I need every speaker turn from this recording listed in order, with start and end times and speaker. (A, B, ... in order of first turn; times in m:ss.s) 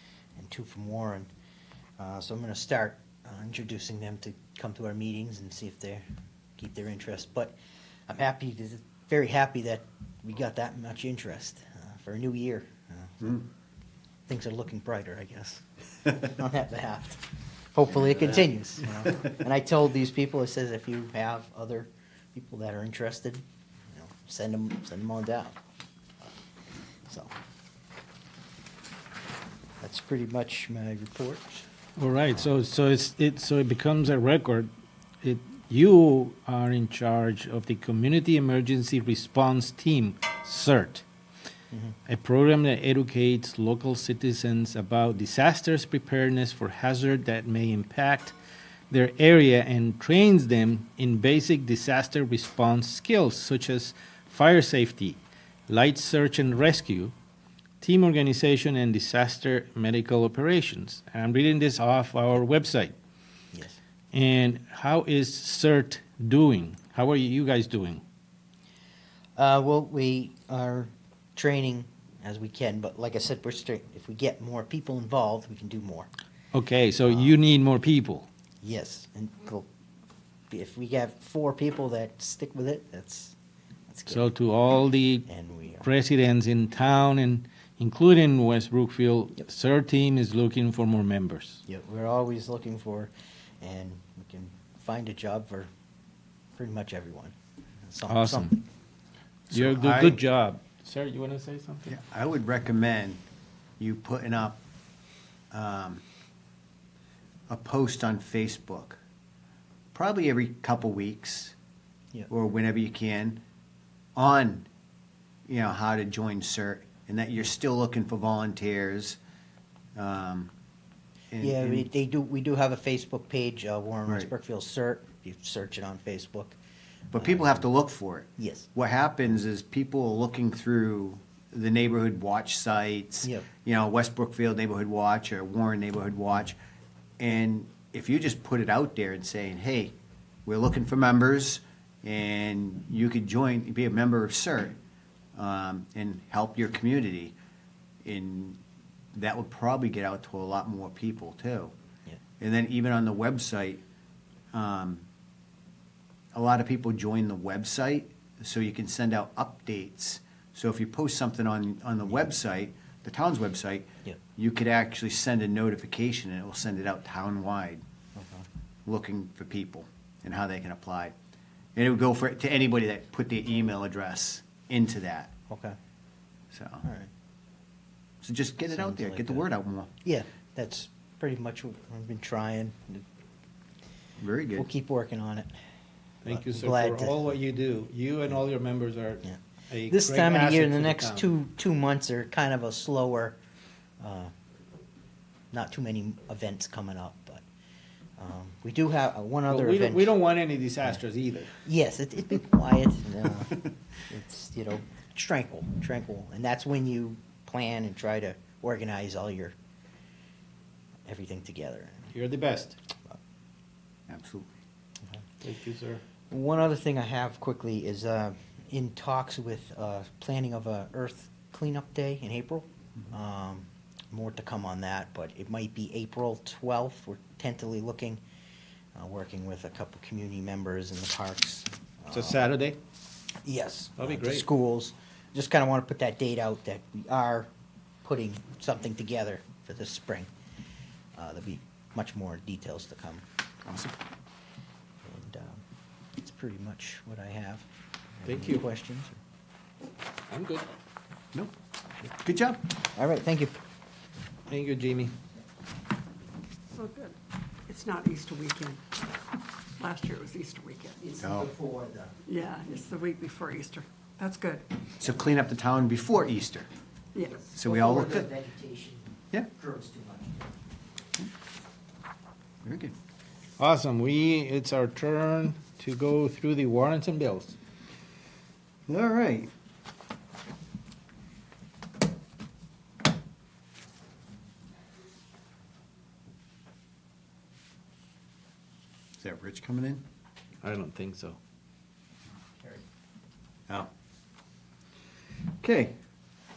0:00.4-0:01.3 A
0:02.0-0:06.0 A
0:06.6-0:07.6 A
0:08.1-0:13.4 A
0:14.3-0:25.6 A
0:27.1-0:27.3 A
0:29.8-0:31.7 A
0:32.0-0:34.7 B
0:35.2-0:41.0 B
0:42.1-0:48.4 B
0:48.9-0:57.1 B
0:57.8-1:03.0 B
1:03.5-1:03.8 A
1:04.1-1:08.0 B
1:09.4-1:16.1 A
1:16.5-1:18.3 B
1:17.1-1:17.4 A
1:18.6-1:19.7 A
1:20.5-1:23.4 A
1:23.9-1:24.3 A
1:24.1-1:25.3 B
1:25.3-1:25.9 A
1:25.8-1:31.6 B
1:31.7-1:35.7 A
1:36.6-1:37.4 A
1:37.9-1:38.6 A
1:38.1-1:38.6 B
1:39.5-1:41.9 B
1:39.5-1:40.2 C
1:41.9-1:43.2 C
1:43.8-1:44.6 C
1:45.5-1:46.0 C
1:47.5-1:49.0 C
1:49.9-1:51.6 C
1:52.3-1:53.4 C
1:54.2-1:54.7 C
1:55.5-1:59.2 C
2:00.0-2:00.5 C
2:01.3-2:01.9 C
2:01.4-2:06.6 A
2:07.1-2:16.6 C
2:07.2-2:07.6 A
2:08.4-2:08.7 A
2:17.2-2:24.8 C
2:25.4-2:27.4 C
2:28.0-2:28.6 C
2:29.2-2:31.7 C
2:32.4-2:33.8 C
2:34.5-2:35.0 C
2:36.3-2:47.8 C
2:48.2-2:48.5 A
2:48.9-2:51.2 C
2:51.8-2:55.3 C
2:55.5-2:55.8 A
2:56.5-2:56.8 C
2:56.8-2:57.1 A
2:58.2-2:59.9 C
2:58.7-2:59.5 A
3:00.0-3:03.1 A
3:04.2-3:04.7 C
3:04.6-3:05.5 A
3:06.2-3:11.3 B
3:06.3-3:07.2 A
3:09.9-3:13.4 A
3:14.0-3:14.3 A
3:15.5-3:17.4 A
3:18.2-3:20.1 A
3:19.5-3:21.5 B
3:21.6-3:23.6 A
3:24.1-3:29.6 A
3:31.1-3:32.1 A
3:32.1-3:32.8 B
3:34.1-3:34.5 C
3:35.4-3:36.0 B
3:36.3-3:48.2 A
3:49.0-3:52.4 A
3:52.1-3:52.8 B
3:53.4-3:57.5 A
3:54.0-3:54.5 B
3:58.0-4:00.3 A
4:01.2-4:03.2 A
4:03.6-4:04.0 C
4:05.0-4:05.6 A
4:06.2-4:07.7 A
4:08.2-4:09.2 A
4:08.3-4:08.6 B
4:10.3-4:10.7 B
4:12.1-4:12.8 C
4:13.0-4:13.6 A
4:14.5-4:15.2 B
4:16.7-4:17.2 D
4:17.7-4:19.0 D
4:19.8-4:21.0 D
4:21.0-4:22.2 A
4:21.2-4:21.5 C
4:22.3-4:24.8 D
4:25.0-4:26.7 C
4:27.2-4:27.4 D
4:27.3-4:30.4 A
4:27.5-4:28.3 C
4:32.6-4:32.9 C
4:33.6-4:37.6 B
4:38.9-4:39.5 C
4:49.2-4:50.0 C
4:50.6-4:51.4 B
4:55.6-4:56.0 C